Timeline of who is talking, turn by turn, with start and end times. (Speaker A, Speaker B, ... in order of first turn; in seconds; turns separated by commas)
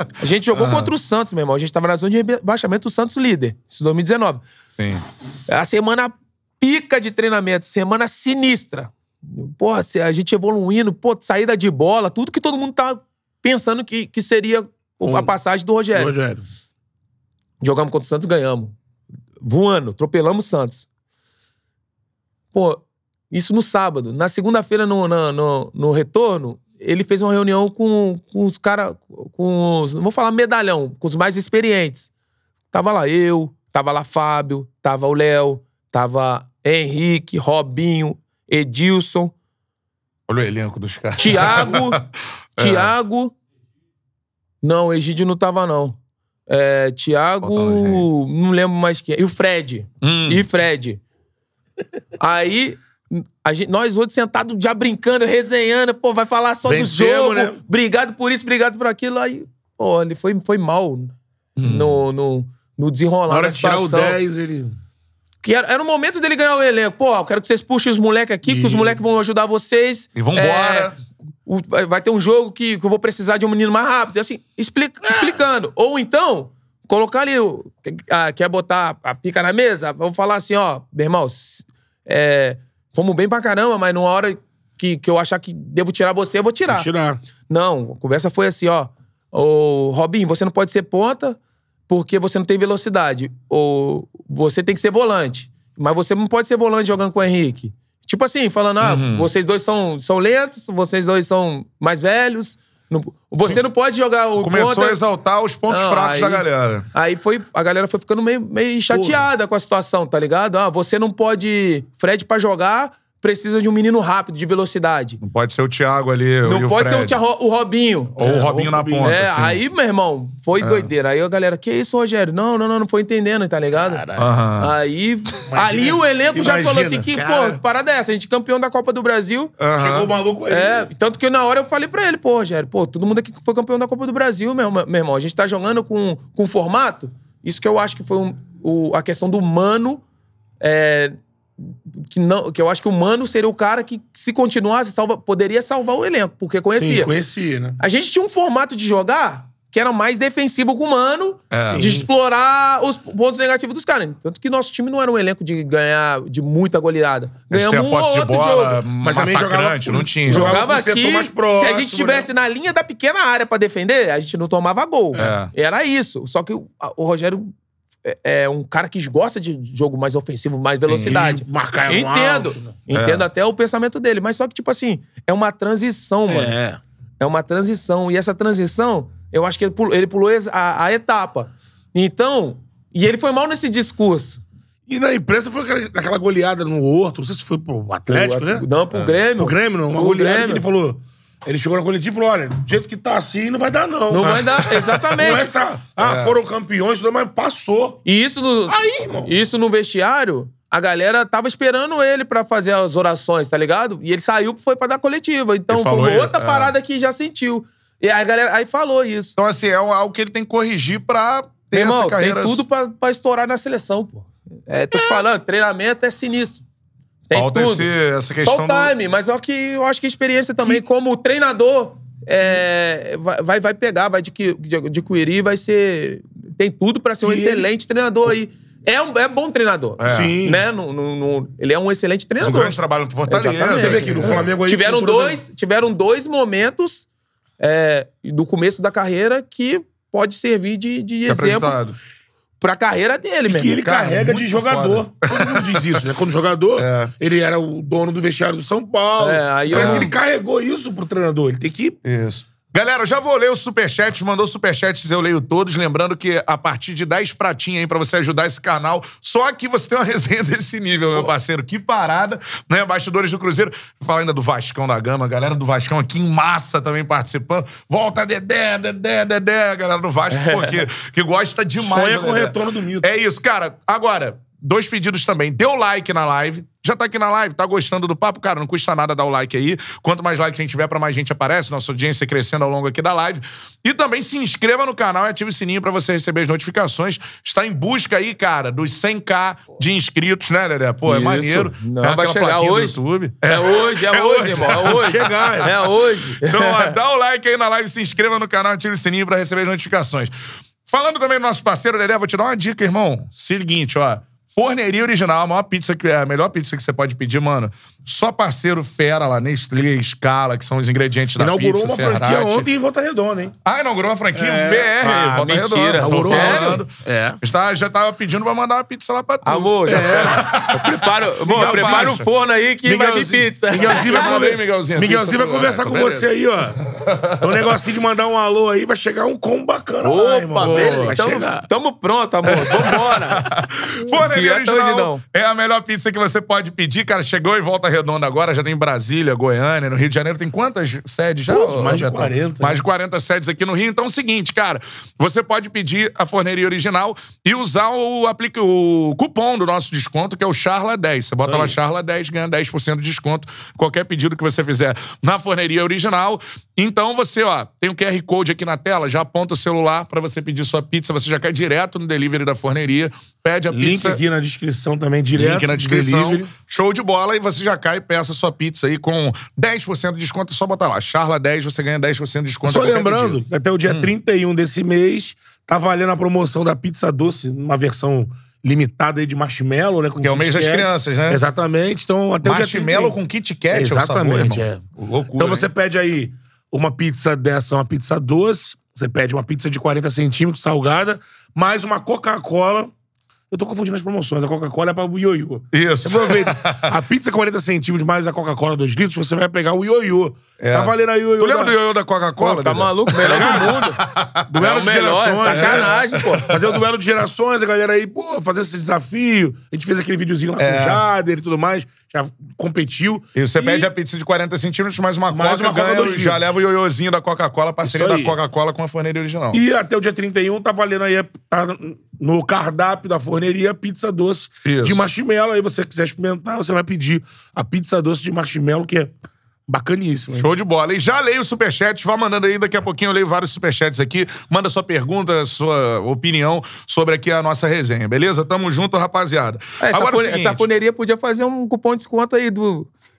Speaker A: 0.2-4.4, Speaker B: 0.5-0.9, Speaker B: 4.8-5.0, Speaker A: 5.5-16.1, Speaker C: 15.0-15.3, Speaker C: 15.9-16.4, Speaker A: 17.6-18.7, Speaker A: 19.4-20.9, Speaker A: 22.5-32.1, Speaker A: 32.7-39.3, Speaker B: 40.3-42.0, Speaker A: 41.2-42.0, Speaker B: 42.6-42.9, Speaker A: 42.6-43.4, Speaker A: 44.6-46.0, Speaker A: 46.5-51.0, Speaker B: 47.4-48.0, Speaker B: 50.0-50.5, Speaker A: 52.2-64.2, Speaker C: 56.6-57.6, Speaker B: 61.5-62.0, Speaker C: 63.3-64.8, Speaker A: 65.4-70.9, Speaker C: 68.5-69.0, Speaker B: 70.2-70.9, Speaker A: 71.5-86.9, Speaker C: 75.1-75.3, Speaker C: 86.7-87.2, Speaker A: 87.5-91.4, Speaker A: 91.9-105.0, Speaker B: 98.8-99.3, Speaker B: 104.4-106.9, Speaker A: 105.7-115.2, Speaker C: 108.9-109.2, Speaker B: 115.2-117.2, Speaker A: 116.4-118.2, Speaker B: 118.2-119.6, Speaker C: 118.2-119.2, Speaker A: 119.0-124.0, Speaker B: 120.6-120.9, Speaker C: 123.8-124.4, Speaker B: 124.2-124.7, Speaker A: 124.6-129.5, Speaker C: 125.5-127.2, Speaker B: 127.2-127.5, Speaker B: 129.6-130.1, Speaker C: 129.8-130.9, Speaker A: 130.5-140.0, Speaker A: 140.6-147.1, Speaker C: 146.8-147.8, Speaker A: 147.8-158.8, Speaker B: 151.5-151.9, Speaker C: 151.6-152.1, Speaker B: 157.5-160.6, Speaker C: 159.0-162.3, Speaker A: 160.3-167.5, Speaker C: 165.1-165.4, Speaker B: 165.1-165.5, Speaker A: 168.0-176.5, Speaker C: 170.9-172.7, Speaker B: 172.9-173.2, Speaker C: 176.3-176.8, Speaker A: 177.2-184.4, Speaker C: 184.9-188.7, Speaker A: 188.1-190.6, Speaker C: 189.4-198.0, Speaker A: 194.1-195.5, Speaker B: 194.2-195.0, Speaker B: 196.0-196.4, Speaker A: 198.0-209.3, Speaker C: 198.7-199.3, Speaker B: 205.7-206.7, Speaker B: 209.4-212.6, Speaker A: 211.7-216.6, Speaker A: 217.3-237.1, Speaker B: 217.3-218.9, Speaker C: 227.2-227.7, Speaker B: 230.0-230.4, Speaker C: 230.1-230.6, Speaker B: 232.4-234.4, Speaker C: 233.7-235.4, Speaker A: 237.6-241.8, Speaker B: 241.3-241.9, Speaker A: 242.6-244.3, Speaker C: 243.5-252.0, Speaker B: 244.1-246.0, Speaker B: 246.8-247.1, Speaker A: 249.2-250.1, Speaker B: 249.7-250.1, Speaker B: 252.0-295.7, Speaker A: 270.3-270.8, Speaker C: 271.8-273.1, Speaker A: 291.0-296.9, Speaker C: 294.7-295.7, Speaker B: 296.4-300.3, Speaker B: 300.8-312.7, Speaker C: 311.4-313.5, Speaker B: 313.6-322.2, Speaker C: 314.3-314.9, Speaker A: 315.0-316.8, Speaker C: 316.0-317.4, Speaker A: 319.4-324.6, Speaker C: 319.9-322.2, Speaker C: 322.8-326.8, Speaker B: 323.8-326.3, Speaker B: 326.9-327.6, Speaker C: 327.4-331.6, Speaker A: 330.0-333.4, Speaker B: 330.6-331.1, Speaker B: 332.6-364.2, Speaker A: 334.1-335.2, Speaker A: 341.5-341.7, Speaker C: 341.5-342.8, Speaker C: 351.4-351.8, Speaker C: 363.7-366.5, Speaker B: 365.3-374.1, Speaker C: 372.6-383.2, Speaker B: 380.2-381.4, Speaker B: 382.4-385.7, Speaker C: 383.7-384.8, Speaker C: 385.4-392.9, Speaker C: 393.5-401.8, Speaker B: 395.7-396.9, Speaker B: 400.6-404.4, Speaker A: 402.4-404.0, Speaker C: 403.1-403.9, Speaker C: 404.4-413.9, Speaker A: 404.6-406.5, Speaker B: 405.4-406.6, Speaker B: 410.6-411.0, Speaker B: 413.3-419.6, Speaker C: 415.3-416.5, Speaker C: 417.8-418.4, Speaker C: 419.5-429.1, Speaker B: 424.6-425.0, Speaker C: 429.7-430.5, Speaker B: 430.4-440.6, Speaker A: 439.8-442.9